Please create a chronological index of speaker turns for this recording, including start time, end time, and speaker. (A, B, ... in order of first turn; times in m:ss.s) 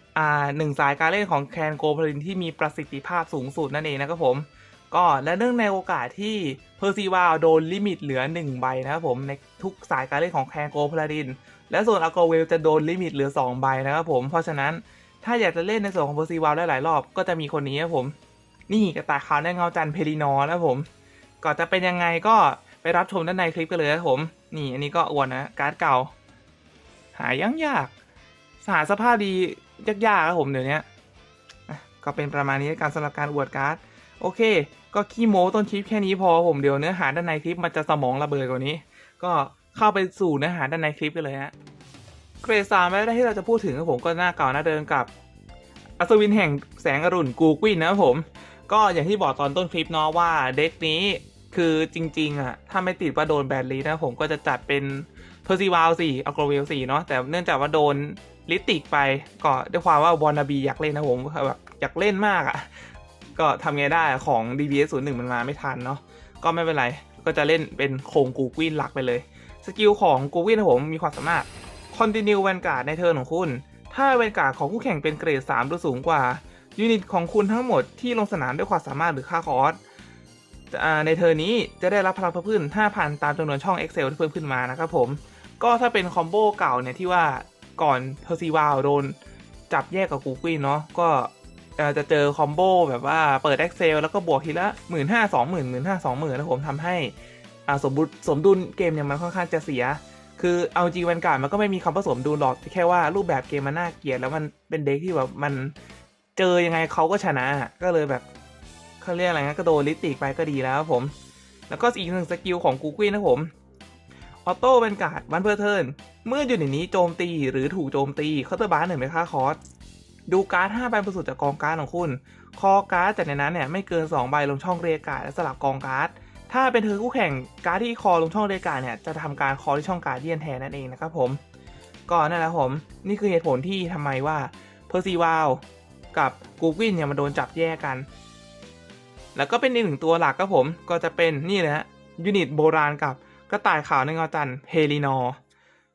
0:00.1-0:18.1 A
0:18.7-0:20.9 A
0:21.4-0:26.1 A
0:27.1-0:27.9 A
0:28.6-0:30.8 A
0:31.7-0:41.5 A
0:42.4-0:45.1 A
0:46.0-1:19.8 A
1:20.7-1:29.2 A
1:29.7-1:37.1 A
1:37.7-1:45.7 A
1:46.4-1:48.2 A
1:49.0-1:51.1 A
1:51.7-1:53.5 A
1:54.4-1:59.6 A
2:00.3-2:11.4 A
2:12.1-2:15.6 A
2:16.1-2:18.1 A
2:19.3-2:25.4 A